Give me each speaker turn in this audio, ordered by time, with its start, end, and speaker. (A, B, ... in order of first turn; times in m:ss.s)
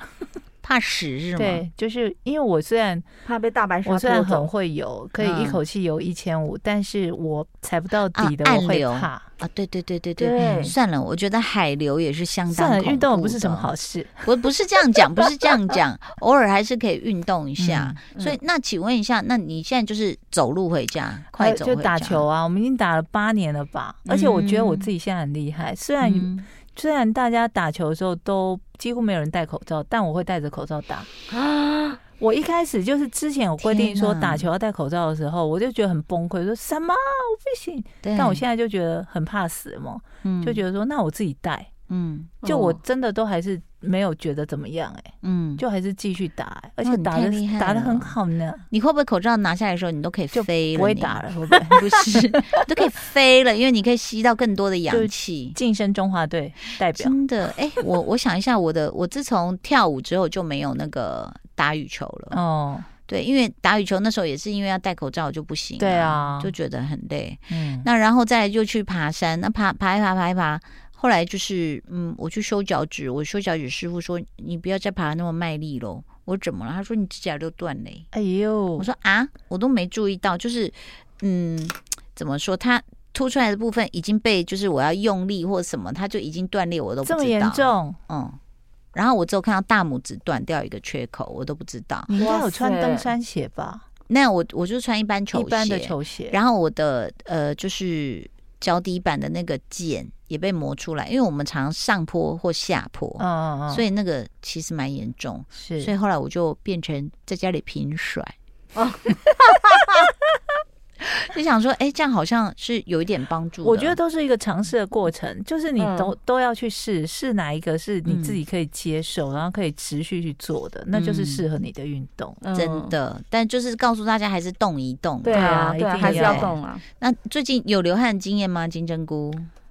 0:00.6-0:01.6 A
0:01.4-0:03.0 B
0:03.2-0:04.5 C
0:03.8-0:09.3 B
0:05.2-0:05.6 A
0:08.1-0:13.7 A
0:10.2-0:10.7 C
0:10.4-0:10.6 B
0:12.5-0:14.3 B
0:14.2-0:22.3 A
0:15.0-0:15.3 B
0:17.6-0:18.0 B
0:18.1-0:18.4 C
0:21.4-0:31.1 B
0:24.0-0:24.9 A
0:26.0-0:26.5 A
0:31.3-0:32.0 C
0:32.2-0:41.7 B
0:33.6-0:34.5 A
0:38.0-0:38.4 A
0:40.2-0:40.6 A
0:41.9-0:42.4 A
0:42.4-0:42.8 C
0:42.4-0:48.6 B
0:45.2-0:45.6 A
0:46.8-0:48.2 A
0:48.7-0:55.6 A
0:50.3-0:52.5 B
0:54.9-0:57.2 B
0:56.9-1:02.4 A
1:02.3-1:02.9 B
1:03.1-1:18.1 A
1:05.8-1:06.5 B
1:07.5-1:07.9 B
1:18.1-1:18.9 B
1:18.8-1:28.4 A
1:27.0-1:28.0 B
1:28.9-1:32.1 A
1:32.1-1:33.8 B
1:32.2-1:33.1 C
1:34.1-1:48.3 A
1:35.3-1:36.4 B
1:43.2-1:43.9 B
1:45.5-1:45.9 B
1:48.8-1:49.9 C
1:51.0-1:54.0 A
1:53.6-2:02.4 B
1:55.8-1:56.1 C
1:58.1-1:58.4 A
2:00.9-2:01.4 A
2:02.4-2:02.9 C
2:02.5-2:09.5 A
2:05.2-2:06.8 C
2:05.3-2:06.5 B